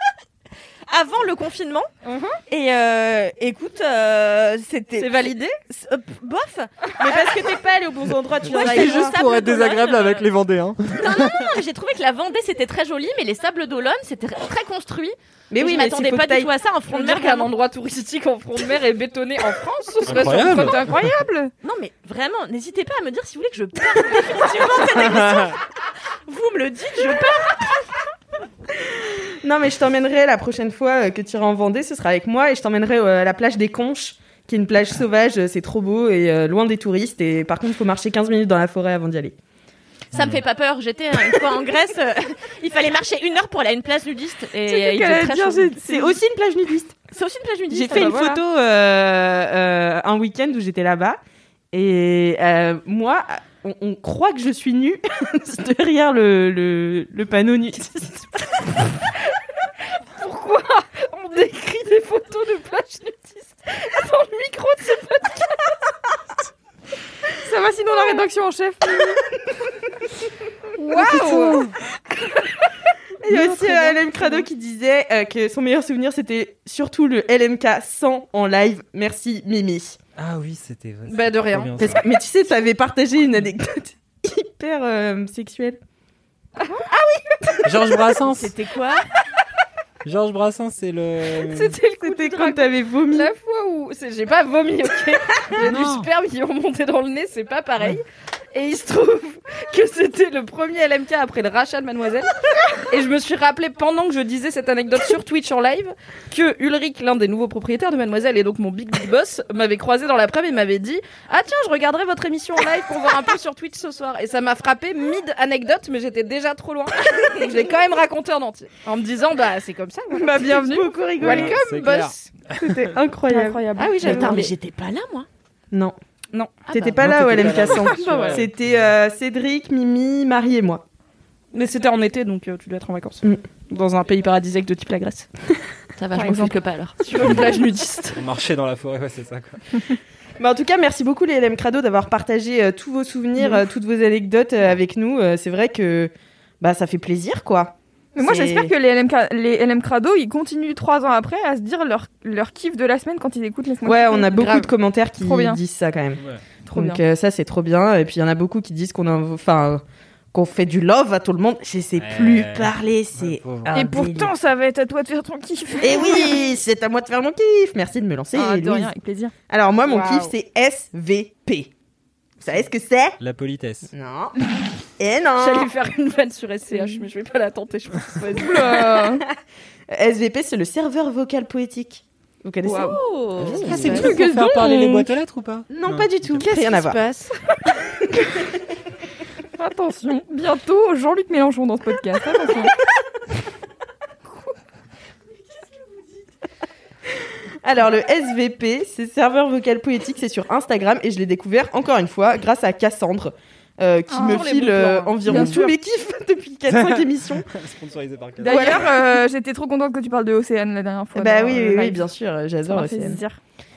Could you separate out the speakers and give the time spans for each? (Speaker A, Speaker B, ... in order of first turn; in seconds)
Speaker A: 0.9-1.9, 2.5-7.5, 8.5-10.3, 10.9-17.5, 21.6-25.6, 26.3-27.8, 40.1-45.8, 47.1-48.3, 88.3-89.1, 124.0-125.3, 136.0-136.9, 182.7-184.0
Speaker B: 2.0-2.4, 5.0-5.6, 16.9-20.9, 60.2-65.3, 70.9-71.3, 81.1-81.8, 91.5-102.3, 102.8-120.6, 121.2-122.3, 123.8-124.4, 128.0-128.3, 131.5-135.3, 137.0-138.2, 169.9-170.2, 175.4-178.9, 186.4-187.3, 204.3-205.3
Speaker C: 7.0-9.1, 15.5-16.5, 29.4-39.4, 45.8-47.0, 47.7-51.2, 51.7-58.3, 73.2-80.0, 81.8-85.8, 92.0-93.3, 120.4-121.6, 122.6-124.5, 125.7-126.0, 126.7-130.8, 140.4-148.7, 153.8-164.3, 165.8-168.9, 169.5-171.7, 172.4-173.2, 173.9-174.3, 175.0-175.7, 179.9-184.1, 185.7-187.0, 197.6-207.5, 208.4-209.1, 211.1-213.2
Speaker D: 8.4-11.5, 20.1-20.9, 25.0-25.6, 80.2-82.0, 87.6-88.5, 90.0-91.8, 95.6-96.1, 121.2-122.9, 127.0-128.5, 138.2-139.6, 162.0-163.8, 173.2-173.9, 183.5-186.4, 206.7-208.8
Speaker E: 20.2-21.5, 44.7-46.2, 47.9-48.4, 67.4-69.2, 70.8-71.7, 73.3-74.4, 120.1-121.5, 123.3-124.4, 127.9-128.3, 136.2-136.6, 148.2-155.6, 156.6-157.0, 163.7-166.5, 168.3-169.3, 176.7-177.0, 178.3-179.2, 182.7-182.9, 183.8-185.1, 189.6-192.7, 204.1-205.7, 208.4-212.1, 212.7-213.4